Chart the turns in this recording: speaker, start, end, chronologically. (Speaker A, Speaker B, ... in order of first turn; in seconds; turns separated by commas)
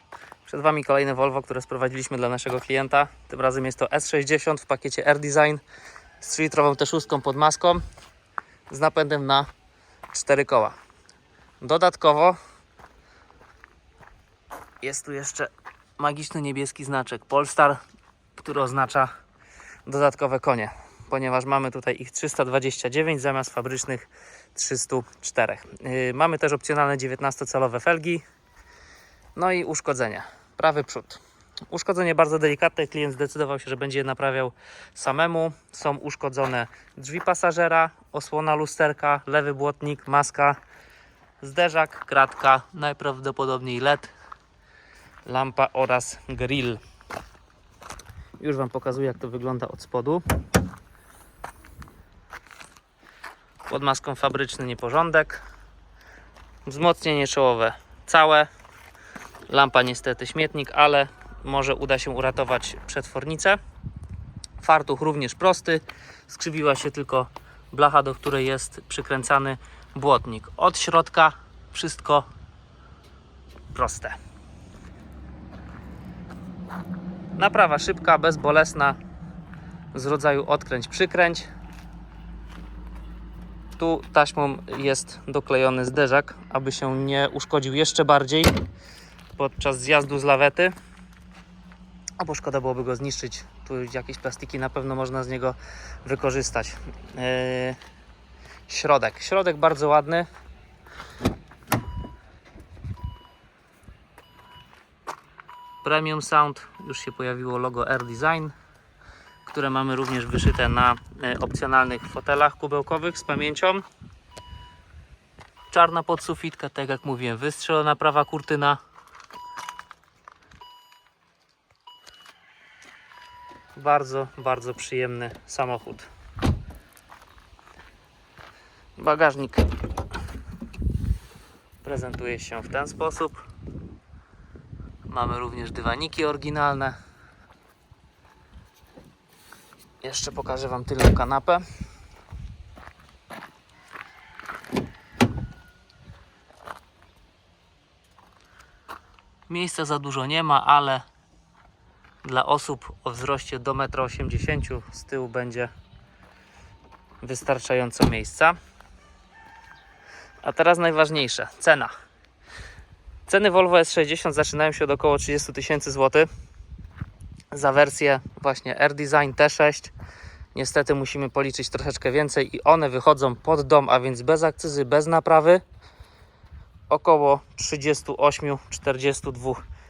Speaker A: 0.5-5.6, Speaker A: 6.2-7.8, Speaker A: 8.7-9.5, Speaker A: 10.1-10.8, Speaker A: 11.6-12.4, Speaker A: 14.8-17.8, Speaker A: 18.4-19.1, Speaker A: 19.9-28.2, Speaker A: 29.4-40.6, Speaker A: 41.4-44.1, Speaker A: 45.2-46.8, Speaker A: 48.4-50.2, Speaker A: 53.7-55.4, Speaker A: 56.7-58.5, Speaker A: 59.5-63.6, Speaker A: 64.6-72.3, Speaker A: 73.7-74.2, Speaker A: 77.4-79.0, Speaker A: 79.9-81.5, Speaker A: 83.8-88.6, Speaker A: 89.4-90.7, Speaker A: 92.2-97.8, Speaker A: 98.7-100.3, Speaker A: 105.8-108.5, Speaker A: 109.4-113.8, Speaker A: 115.7-118.8, Speaker A: 123.8-126.1, Speaker A: 129.0-129.7, Speaker A: 131.8-133.4, Speaker A: 135.1-137.0, Speaker A: 140.0-141.6, Speaker A: 149.5-151.0, Speaker A: 152.2-155.7, Speaker A: 157.2-158.6, Speaker A: 160.4-161.9, Speaker A: 163.3-166.3, Speaker A: 167.5-169.9, Speaker A: 170.5-175.6, Speaker A: 176.9-179.6